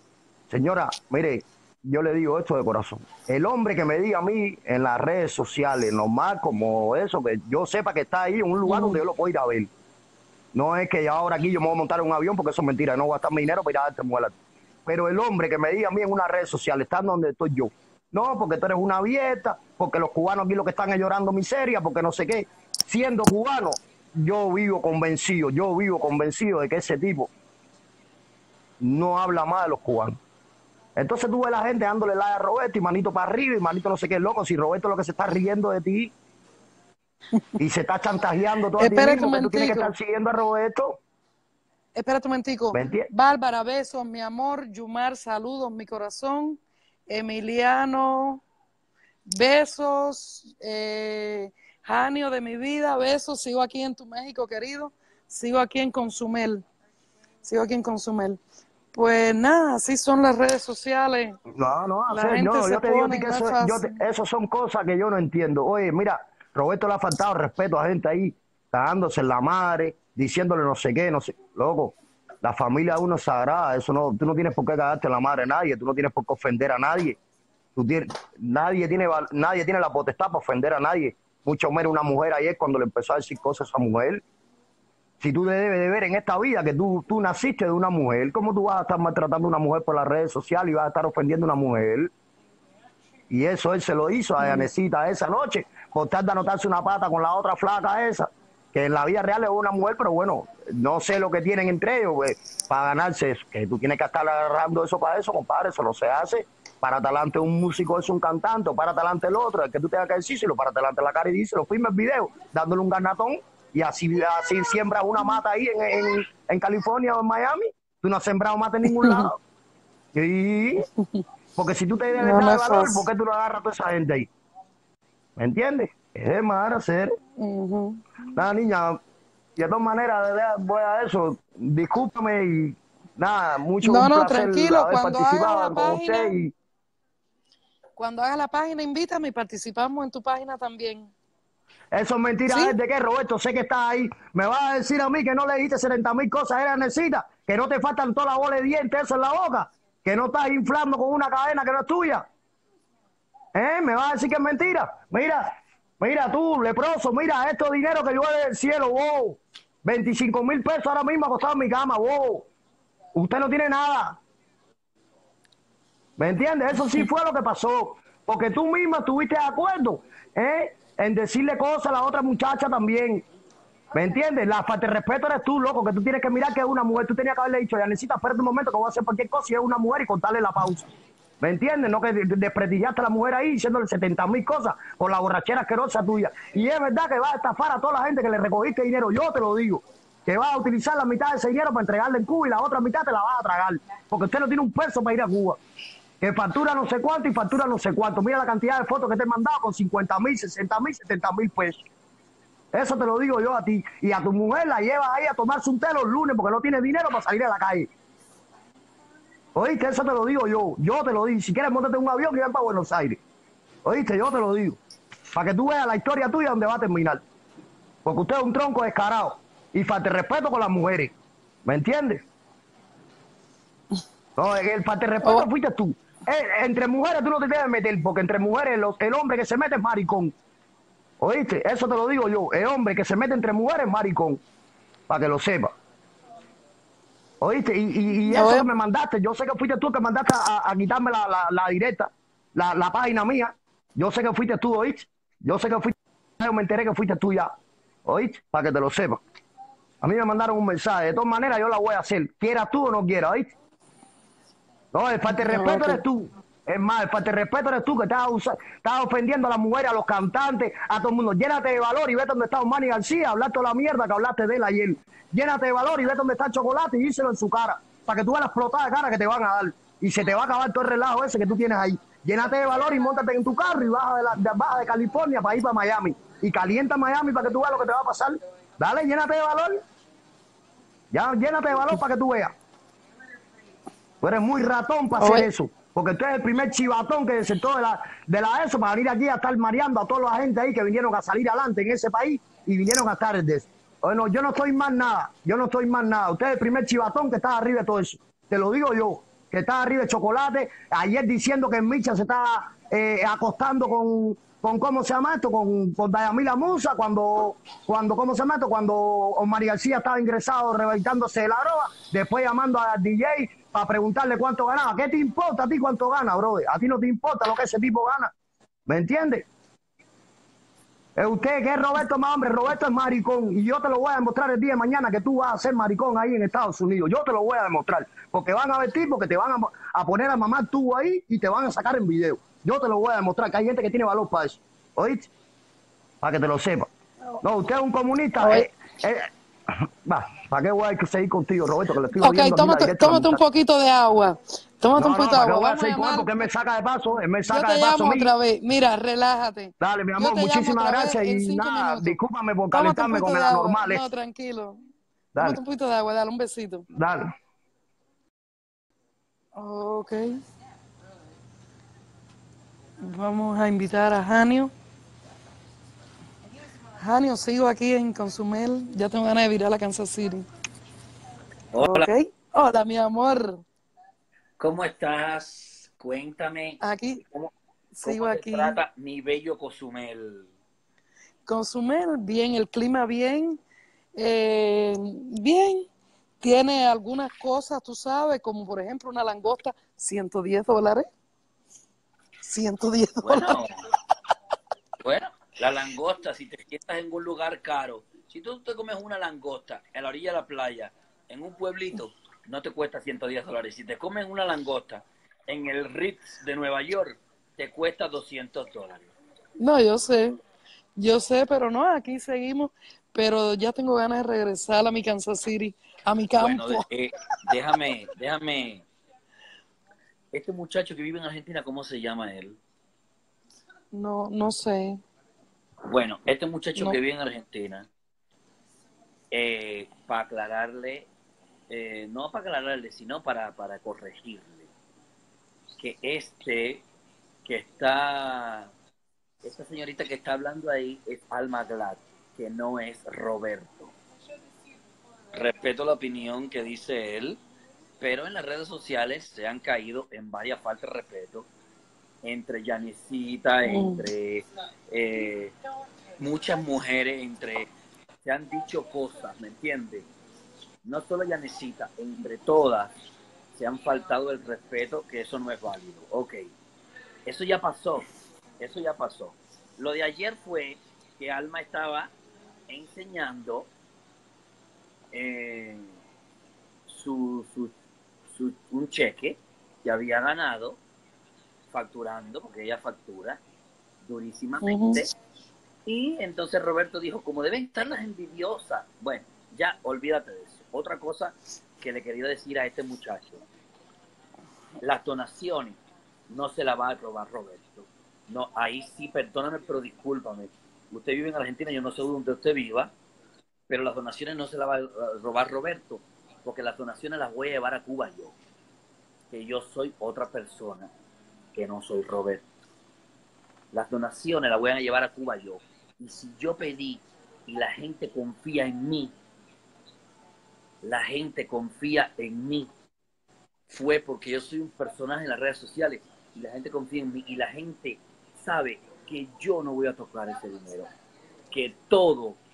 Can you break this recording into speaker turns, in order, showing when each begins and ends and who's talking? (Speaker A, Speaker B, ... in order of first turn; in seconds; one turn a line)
Speaker A: 0.5-9.7
Speaker B: 8.6-9.0
Speaker A: 10.5-27.3
Speaker A: 28.8-30.2
Speaker A: 31.0-36.1
Speaker A: 37.6-41.0
Speaker B: 38.8-39.9
Speaker B: 41.9-48.4
Speaker A: 42.7-43.1
Speaker B: 49.2-56.6
Speaker B: 57.4-58.4
Speaker B: 58.9-61.4
Speaker A: 61.5-77.2
Speaker B: 62.1-64.0
Speaker A: 77.8-84.2
Speaker A: 85.2-92.1
Speaker A: 93.3-119.4
Speaker B: 94.4-94.7
Speaker B: 118.8-119.3
Speaker A: 120.1-120.9
Speaker A: 121.5-124.3
Speaker B: 122.2-123.0
Speaker A: 125.4-127.2
Speaker B: 127.4-128.0
Speaker A: 128.3-129.0
Speaker A: 129.6-136.5
Speaker B: 133.8-136.3
Speaker B: 138.0-141.1
Speaker A: 141.9-152.2
Speaker B: 142.5-142.8
Speaker A: 153.5-162.5
Speaker A: 163.1-164.2
Speaker A: 166.2-173.2
Speaker A: 173.9-195.6
Speaker A: 196.2-201.8
Speaker A: 202.7-207.9
Speaker A: 209.5-213.2
Speaker A: 213.8-214.8
Speaker A: 215.3-217.2
Speaker A: 218.0-221.1
Speaker A: 221.6-222.2
Speaker A: 224.4-230.3
Speaker A: 231.2-234.4
Speaker A: 235.1-235.7
Speaker A: 237.4-247.5
Speaker B: 238.3-238.7
Speaker A: 248.1-249.2
Speaker A: 250.0-253.5
Speaker A: 254.9-279.8
Speaker B: 255.3-256.0
Speaker A: 281.1-282.5
Speaker A: 284.2-318.3
Speaker B: 285.2-285.5
Speaker A: 318.9-319.5
Speaker A: 321.1-335.3
Speaker A: 336.2-336.9
Speaker A: 337.4-343.4
Speaker B: 338.4-338.7
Speaker B: 342.2-346.5
Speaker A: 344.9-348.3
Speaker B: 347.5-352.2
Speaker A: 349.8-354.0
Speaker B: 352.7-354.8
Speaker A: 355.3-355.6
Speaker B: 355.4-356.9
Speaker A: 356.9-357.3
Speaker B: 359.6-360.4
Speaker B: 363.0-364.7
Speaker B: 367.0-370.4
Speaker C: 371.7-372.1
Speaker B: 371.8-373.6
Speaker C: 374.6-376.8
Speaker B: 376.8-377.2
Speaker B: 377.9-378.8
Speaker C: 378.0-380.5
Speaker B: 381.4-383.6
Speaker B: 384.2-385.9
Speaker B: 386.4-391.1
Speaker B: 392.4-393.6
Speaker C: 393.2-393.8
Speaker C: 395.0-409.1
Speaker B: 409.6-410.4
Speaker B: 410.9-416.9
Speaker C: 416.4-418.8
Speaker C: 420.3-422.6
Speaker B: 423.9-425.0
Speaker C: 425.8-427.9
Speaker C: 429.3-431.1
Speaker C: 431.7-434.7
Speaker C: 435.8-436.8
Speaker C: 437.4-438.7
Speaker C: 439.4-443.9
Speaker C: 445.3-447.4
Speaker C: 448.0-451.5
Speaker C: 452.2-455.6
Speaker B: 453.6-454.1
Speaker C: 456.2-457.7
Speaker C: 458.2-460.1
Speaker C: 460.8-462.9
Speaker C: 463.5-466.5
Speaker C: 467.2-468.1
Speaker C: 468.6-472.1
Speaker C: 472.7-473.7
Speaker C: 475.1-475.9
Speaker C: 476.9-477.7
Speaker C: 478.3-480.8
Speaker C: 481.7-483.4
Speaker C: 484.1-485.1
Speaker B: 484.6-485.1
Speaker C: 485.9-493.4
Speaker C: 494.8-502.9
Speaker C: 503.7-508.3
Speaker C: 509.3-510.9
Speaker C: 511.5-512.4
Speaker C: 513.7-519.1
Speaker C: 520.8-522.7
Speaker C: 523.7-530.9
Speaker C: 531.5-532.4